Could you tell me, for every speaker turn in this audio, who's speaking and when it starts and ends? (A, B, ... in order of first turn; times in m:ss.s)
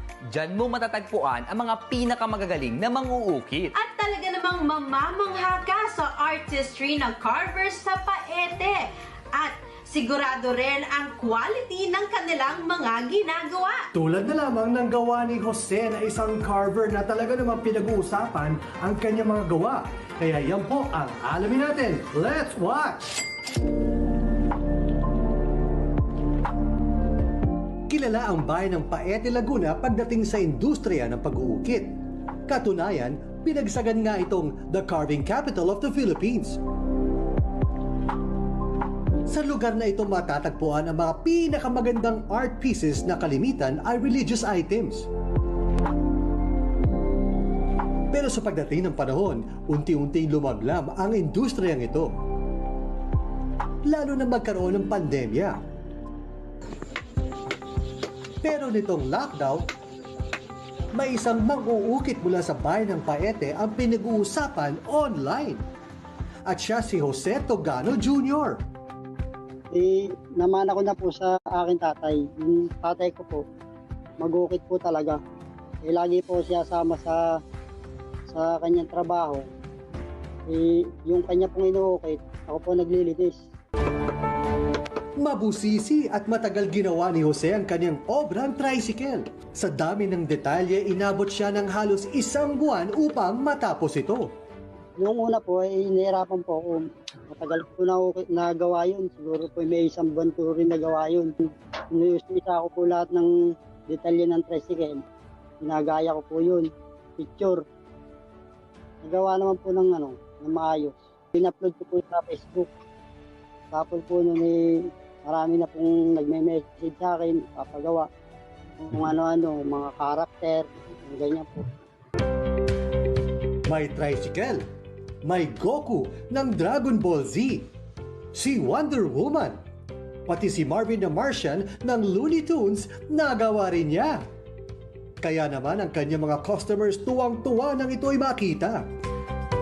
0:00.3-0:03.7 A
0:03.7-0:13.8 B
0:13.9-0:23.0 C
0:27.9-0:32.0 C
0:32.5-0:36.6 C
0:39.3-0:45.1 C
0:48.1-0:52.1 C
0:53.8-0:55.6 C
0:58.4-0:59.6 C
1:00.9-1:05.6 C
1:06.5-1:08.6 C
1:09.7-1:13.4 D
1:14.2-1:15.2 D
1:15.8-1:17.2 D
1:18.3-1:19.5 D
1:20.5-1:23.4 D
1:25.2-1:34.3 C
1:35.0-1:41.3 D
1:41.9-1:43.3 D
1:43.9-1:45.0 D
1:45.6-1:47.6 D
1:49.0-1:52.7 D
1:53.7-1:58.1 D
1:58.8-2:01.7 D
2:03.7-2:04.6 C
2:05.2-2:07.7 C
2:08.3-2:09.6 C
2:10.3-2:14.2 C
2:15.2-2:18.8 C